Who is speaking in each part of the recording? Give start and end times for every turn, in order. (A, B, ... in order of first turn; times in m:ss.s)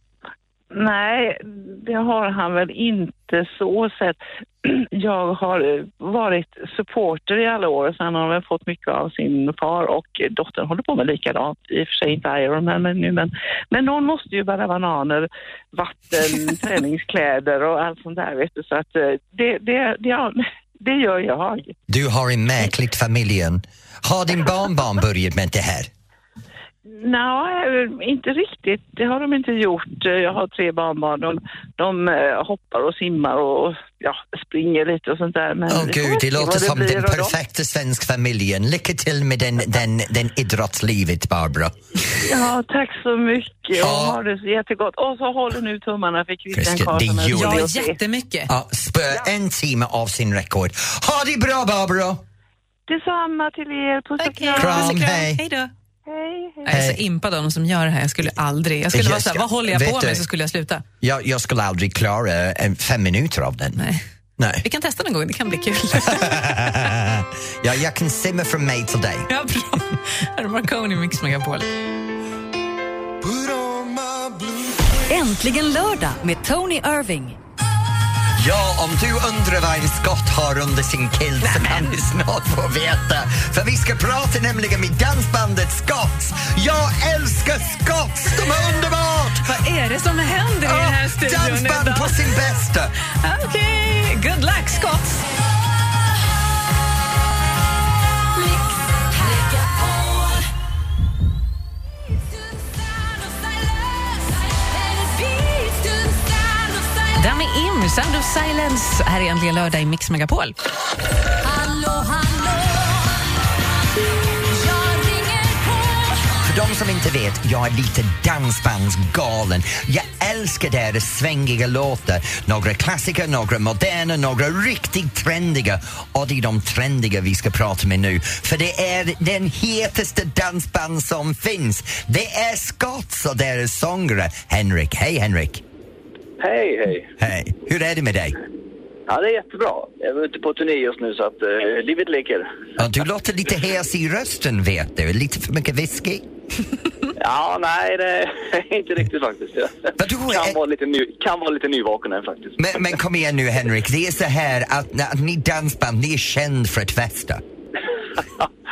0:00.7-0:21.7 A
0:21.9-0:25.9 B
0:26.9-0:37.3 A
0:35.7-0:41.8 B
0:42.2-0:48.0 A
0:43.8-0:44.2 B
0:46.5-0:47.7 B
0:47.3-0:48.5 C
0:48.5-0:52.2 B
0:52.9-0:55.0 A
0:54.2-0:55.7 C
0:54.6-0:55.4 B
0:56.0-0:56.8 A
0:56.6-1:00.8 C
0:56.7-0:57.0 B
0:58.9-1:00.2 B
1:01.0-1:03.8 B
1:03.8-1:04.0 C
1:04.4-1:04.6 B
1:04.6-1:06.4 C
1:05.9-1:09.3 B
1:09.3-1:11.7 C
1:13.2-1:15.0 B
1:15.1-1:17.4 D
1:18.4-1:29.5 B
1:21.4-1:22.0 C
1:29.4-1:32.2 C
1:30.6-1:32.9 B
1:33.2-1:35.2 C
1:38.3-1:40.5 D
1:42.1-1:47.2 D
1:47.1-1:50.5 C
1:51.4-1:53.5 D
1:54.3-1:56.3 D
1:56.4-2:15.6 B
2:16.4-2:17.1 E
2:17.2-2:18.4 B
2:19.1-2:22.7 E
2:22.8-2:26.2 B
2:27.2-2:33.0 E
2:30.0-2:30.6 B
2:32.6-2:37.4 B